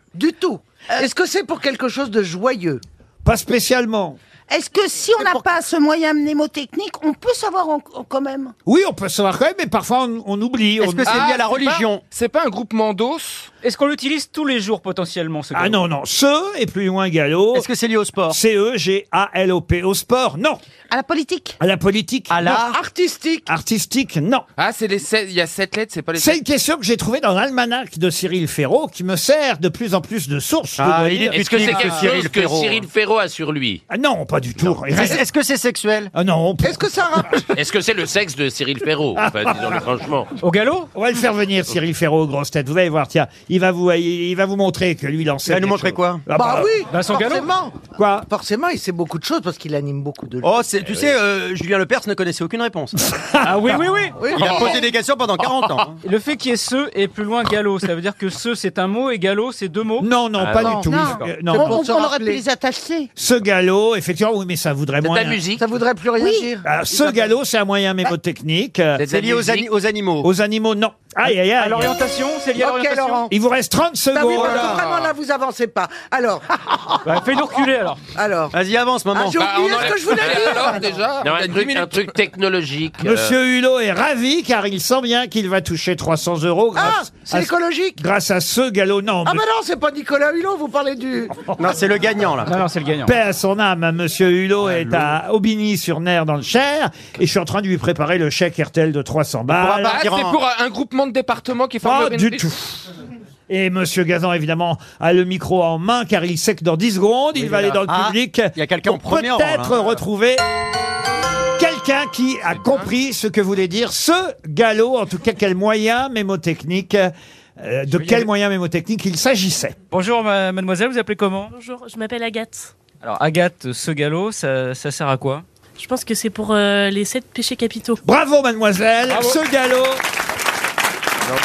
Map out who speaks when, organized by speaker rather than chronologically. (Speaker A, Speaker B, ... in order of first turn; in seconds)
Speaker A: 0.1-2.8, 22.6-23.5, 36.6-37.5, 46.3-50.7, 54.2-54.8, 60.6-62.4, 65.5-67.2, 72.6-73.3, 74.1-77.0, 78.2-78.5, 79.1-81.0, 86.7-88.0, 89.2-91.5
Speaker B: 3.2-4.2, 8.7-11.3, 15.5-17.7, 18.3-20.6, 21.6-22.6, 23.5-24.4, 26.1-31.4, 33.9-35.2, 36.1-36.8, 39.1-39.8, 40.9-46.7, 47.9-48.3, 53.1-53.7, 60.0-61.9, 63.1-65.4, 66.6-69.0, 70.2-71.9, 73.3-74.8, 83.0-89.4, 93.0-100.1, 101.8-102.9, 103.5-110.4, 111.6-119.8, 128.0-130.0
Speaker C: 4.5-8.5, 20.9-21.6, 60.8-63.1, 66.2-66.5
Speaker D: 10.8-12.0, 17.5-18.4, 22.3-22.8, 30.8-32.8, 34.9-36.1, 45.5-46.2, 50.4-53.0, 54.3-56.0, 69.1-70.3, 74.4-74.8, 78.5-79.4, 91.5-92.5, 99.5-100.4, 107.9-109.8
Speaker E: 11.0-13.5, 24.6-26.4, 79.3-82.1, 99.8-102.5
Speaker F: 13.6-15.8, 31.7-32.0, 40.4-40.9, 46.9-47.5, 53.4-54.3, 56.0-60.1, 71.3-73.3, 77.0-78.0, 92.5-93.1, 107.4-107.8, 117.9-118.2, 119.9-121.5, 123.0-125.4
Speaker G: 31.3-33.8, 37.5-40.3, 60.4-60.9, 65.0-65.6, 69.0-69.7, 81.2-83.3
Speaker H: 121.5-122.7, 125.8-128.0